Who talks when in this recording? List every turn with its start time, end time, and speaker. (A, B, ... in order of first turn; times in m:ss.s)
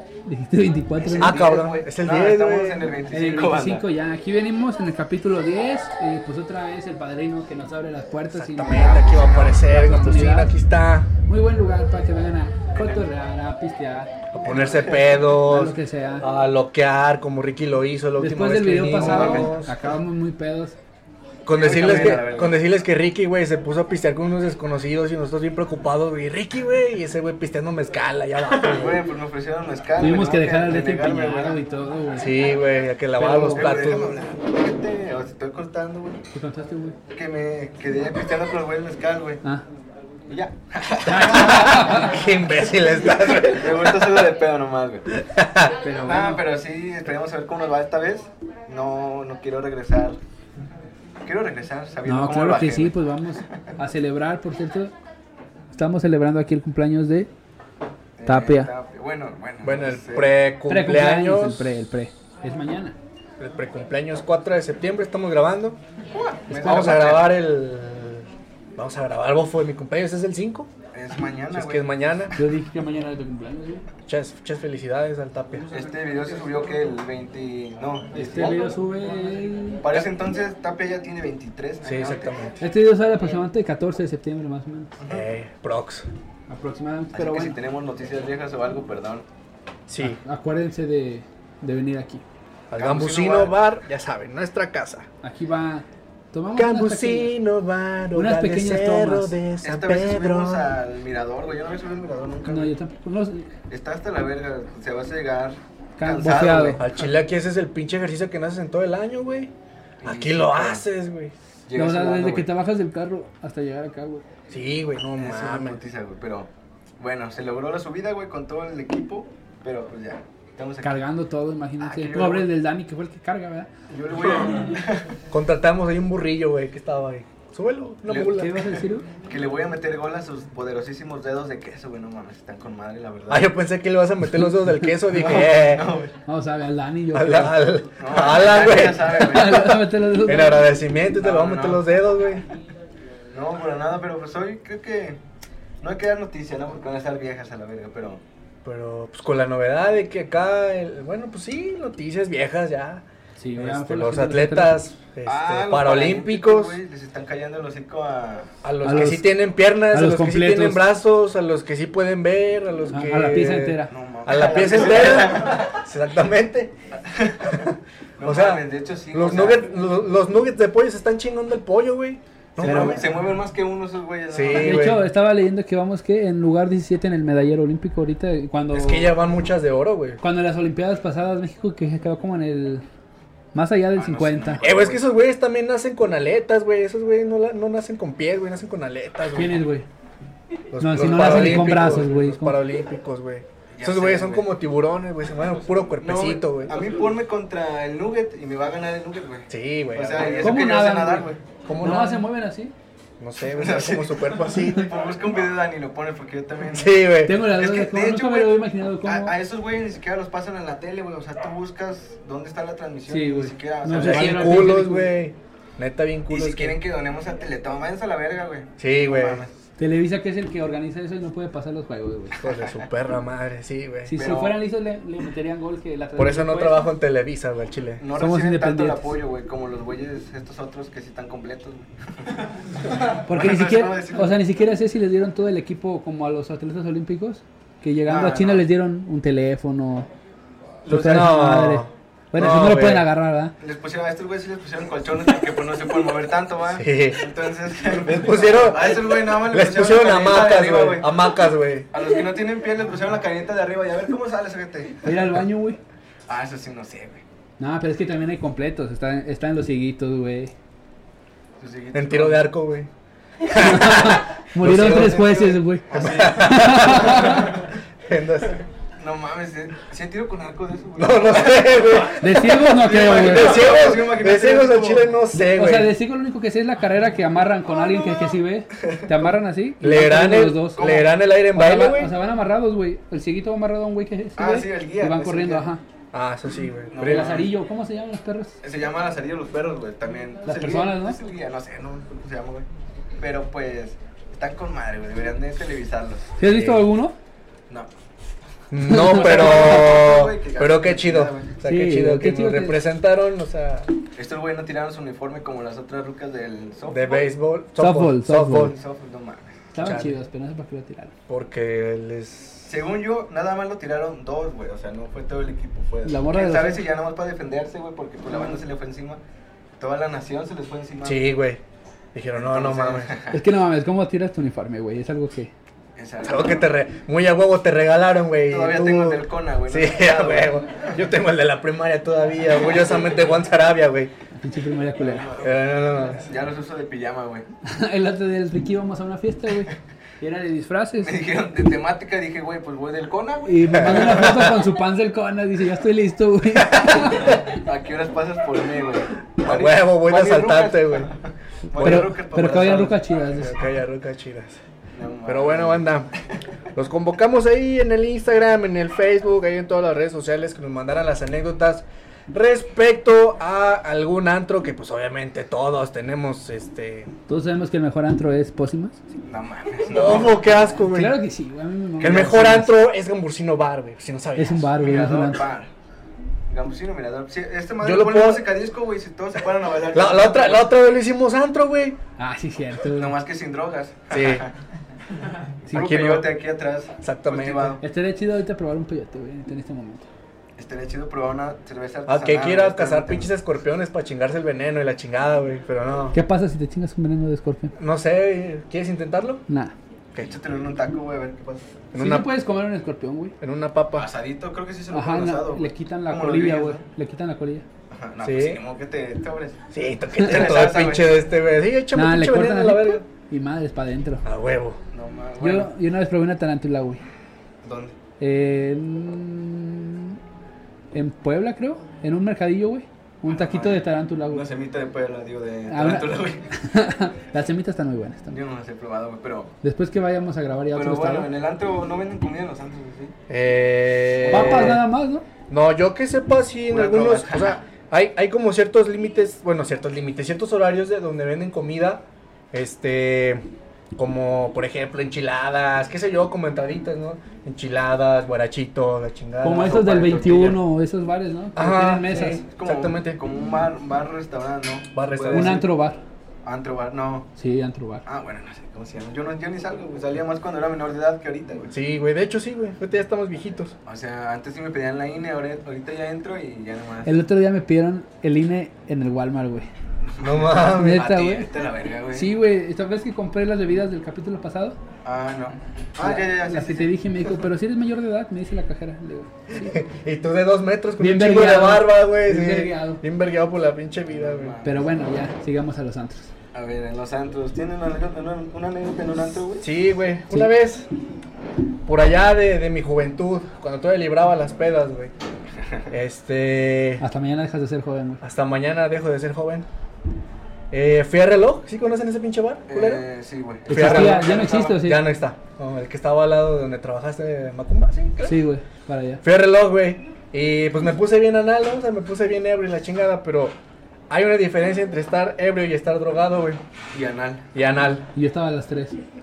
0:00.3-0:01.6 A
0:01.0-0:03.8 B
0:01.2-0:02.9 C
0:03.1-0:10.6 A
0:08.3-0:11.1 C
0:11.3-0:14.1 A
0:12.8-0:13.0 B
0:14.3-0:19.8 C
0:14.5-0:14.8 B
0:15.4-0:16.3 A
0:18.2-0:20.8 A
0:18.9-0:19.5 B
0:21.4-0:29.1 C
0:21.5-0:22.6 B
0:28.6-0:31.6 B
0:30.0-0:32.4 A
0:32.2-0:34.2 C
0:33.2-0:36.2 B
0:36.3-0:37.0 A
0:37.1-0:39.4 B
0:40.3-0:41.7 B
0:41.0-0:42.1 A
0:41.2-0:44.2 C
0:43.5-0:45.1 B
0:45.1-0:45.8 C
0:45.8-0:46.4 A
0:46.0-0:50.2 B
0:51.2-0:53.0 B
0:52.1-0:54.9 A
0:55.7-0:57.3 A
0:58.2-1:00.3 B
0:58.2-0:58.7 A
0:59.6-1:01.7 C
1:00.7-1:03.0 A
1:03.4-1:05.8 C
1:06.1-1:07.3 B
1:06.5-1:07.1 A
1:06.6-1:10.7 C
1:10.9-1:11.9 B
1:11.5-1:12.4 C
1:12.3-1:13.8 A
1:14.1-1:15.7 C
1:15.7-1:18.7 B
1:18.1-1:19.8 A
1:19.8-1:22.4 B
1:21.8-1:22.6 C
1:22.6-1:24.9 A
1:25.0-1:25.2 B
1:25.1-1:26.1 C
1:26.5-1:27.6 A
1:27.1-1:29.2 B
1:29.9-1:30.2 C
1:30.0-1:32.2 A
1:32.7-1:35.1 C
1:32.8-1:33.6 B
1:35.2-1:37.4 A
1:36.5-1:40.7 C
1:38.1-1:39.4 A
1:39.6-1:42.7 B
1:42.5-1:43.5 A
1:43.7-1:47.0 B
1:46.0-1:46.8 A
1:46.8-1:49.5 C
1:50.0-1:50.8 B
1:50.0-1:51.3 C
1:51.7-1:52.5 B
1:51.7-1:54.2 A
1:54.5-1:55.8 C
1:55.2-1:56.5 B
1:57.0-2:01.0 B
2:00.8-2:03.7 A
2:01.8-2:02.5 B
2:03.9-2:05.0 B
2:05.3-2:08.5 C
2:08.1-2:13.5 B
2:08.2-2:09.1 A
2:13.3-2:15.8 C
2:15.1-2:16.1 B
2:16.3-2:17.6 A
2:17.1-2:22.4 C
2:18.0-2:19.7 B
2:19.2-2:20.7 A
2:21.2-2:21.8 B
2:23.3-2:25.2 B
2:25.8-2:28.2 B
2:28.6-2:33.0 C
2:33.4-2:34.8 A
2:33.6-2:36.8 C
2:35.2-2:38.5 B
2:38.6-2:46.7 C
2:38.8-2:40.8 A
2:42.9-2:43.9 A
2:43.9-2:45.7 B
2:47.1-2:47.4 B
2:47.4-2:53.1 C
2:48.2-2:49.7 B
2:52.6-2:54.9 B
2:52.6-2:53.0 A
2:54.3-2:55.0 C
2:54.5-2:59.2 A
2:58.7-3:00.2 C
3:00.2-3:02.8 A
3:03.5-3:04.6 A
3:04.0-3:05.0 B
3:04.6-3:09.6 C
3:09.3-3:09.9 A
3:10.7-3:16.8 C
3:10.8-3:12.6 A
3:13.7-3:14.5 B
3:16.0-3:21.4 B
3:19.5-3:20.6 C
3:20.4-3:21.3 A
3:21.6-3:22.2 C
3:21.8-3:22.7 A
3:23.2-3:24.9 C
3:23.5-3:26.9 B
3:26.7-3:27.4 C
3:27.2-3:29.3 A
3:27.5-3:34.5 B
3:33.1-3:35.2 A
3:33.9-3:36.8 C
3:36.3-3:39.5 B
3:38.8-3:39.4 C
3:39.8-3:42.4 A
3:42.4-3:44.2 C
3:44.1-3:46.9 A
3:44.2-3:44.6 B
3:46.2-3:48.0 C
3:48.0-3:52.4 B
3:48.2-3:49.2 A
3:53.1-3:54.4 B
3:53.2-4:00.1 A
3:58.1-3:58.6 B
4:00.8-4:03.1 C
4:00.9-4:03.5 A
4:03.6-4:11.1 B
4:06.7-4:07.2 C
4:08.0-4:11.9 C
4:11.9-4:15.0 B
4:15.0-4:15.8 A
4:16.3-4:17.2 B
4:17.6-4:20.5 A
4:21.6-4:22.4 B
4:21.9-4:22.9 C
4:23.5-4:27.5 A
4:23.5-4:25.4 C
4:24.6-4:27.4 B
4:25.9-4:28.6 C
4:29.0-4:35.1 B
4:31.0-4:36.0 C
4:32.2-4:33.7 A
4:35.3-4:45.8 A
4:39.8-4:42.1 C
4:40.8-4:41.1 B
4:44.4-4:45.6 B
4:46.1-4:47.4 C
4:46.9-4:47.5 B
4:47.0-4:48.6 A
4:48.6-4:52.6 B
4:50.4-4:51.2 A
4:53.2-4:56.3 B
4:56.4-4:57.1 A
4:56.4-4:56.8 C
4:58.7-5:03.9 C
4:58.9-4:59.8 A
4:59.0-5:01.5 B
5:01.6-5:02.8 A
5:04.2-5:07.2 B
5:06.9-5:08.8 C
5:07.8-5:08.7 A
5:08.6-5:09.6 B
5:09.7-5:11.1 A
5:09.8-5:10.2 C
5:11.3-5:12.7 C
5:12.6-5:19.2 B
5:16.0-5:16.8 A
5:19.8-5:21.2 B
5:21.0-5:21.6 C
5:22.1-5:23.1 C
5:22.4-5:23.4 B
5:23.3-5:25.5 A
5:26.0-5:26.6 B
5:26.2-5:34.1 C
5:28.5-5:30.5 B
5:34.4-5:35.3 A
5:35.0-5:37.5 B
5:35.4-5:36.2 C
5:37.6-5:41.1 A
5:41.0-5:44.4 B
5:43.4-5:47.6 A
5:43.7-5:44.6 C
5:47.0-5:53.0 B
5:49.4-5:51.1 C
5:51.7-5:53.6 A
5:51.8-5:52.0 C
5:53.4-5:54.6 C
5:54.9-5:55.9 B
5:55.2-5:56.1 C
5:56.8-6:07.1 C
6:07.3-6:09.0 A
6:09.2-6:10.5 B
6:09.9-6:11.2 C
6:10.8-6:12.7 A
6:12.0-6:14.7 C
6:14.4-6:15.4 A
6:14.8-6:15.7 B
6:16.5-6:20.7 B
6:17.8-6:18.5 C
6:19.9-6:22.0 C
6:22.2-6:23.2 A
6:22.8-6:24.5 B
6:24.1-6:24.5 C
6:25.7-6:26.3 C
6:25.7-6:27.8 B
6:27.0-6:27.8 C
6:27.8-6:30.1 A
6:30.6-6:33.3 B
6:32.0-6:36.2 C
6:36.1-6:37.7 A
6:37.8-6:39.4 C
6:39.5-6:39.7 A
6:40.1-6:41.8 B
6:41.9-6:42.3 C
6:42.0-6:43.3 A
6:43.4-6:44.1 C
6:43.9-6:46.8 B
6:44.9-6:47.6 A
6:47.9-6:49.6 B
6:48.2-6:48.6 C
6:49.7-6:53.0 C
6:50.2-6:51.2 B
6:52.0-6:54.2 A
6:54.2-6:54.8 C
6:54.9-6:55.7 B
6:55.4-6:57.0 A
6:57.6-6:58.0 B
6:58.2-7:00.2 A
7:00.9-7:04.4 A
7:03.2-7:06.5 B
7:05.7-7:08.4 A
7:08.3-7:09.5 B
7:09.6-7:11.3 A
7:10.7-7:13.1 B
7:13.3-7:14.8 C
7:14.2-7:14.8 B
7:14.3-7:15.2 A
7:15.5-7:23.4 C
7:16.7-7:17.6 B
7:24.0-7:30.4 C
7:29.4-7:32.4 A
7:29.6-7:30.6 B
7:31.5-7:33.2 C
7:32.5-7:35.6 B
7:34.9-7:35.6 C
7:35.3-7:36.0 A
7:36.4-7:37.3 B
7:37.4-7:38.0 A
7:38.0-7:41.7 B
7:41.7-7:43.7 C
7:43.9-7:47.2 B
7:47.0-7:49.7 A
7:50.1-7:52.3 B
7:50.2-7:51.1 C
7:50.7-7:51.5 A
7:52.1-7:54.8 A
7:55.0-7:56.9 B
7:56.0-7:59.7 A
7:59.5-8:04.5 C
8:01.0-8:03.0 A
8:04.2-8:04.9 B
8:04.6-8:06.3 A
8:06.5-8:09.6 B
8:09.6-8:10.9 C
8:11.9-8:15.1 C
8:15.9-8:17.0 C
8:17.0-8:18.2 A
8:18.2-8:19.6 C
8:20.7-8:23.0 C
8:22.7-8:24.8 B
8:23.6-8:25.0 A
8:23.7-8:28.4 C
8:28.2-8:29.2 A
8:29.2-8:33.5 C
8:34.1-8:36.6 C
8:36.9-8:37.4 B
8:37.5-8:38.0 C
8:38.1-8:39.0 A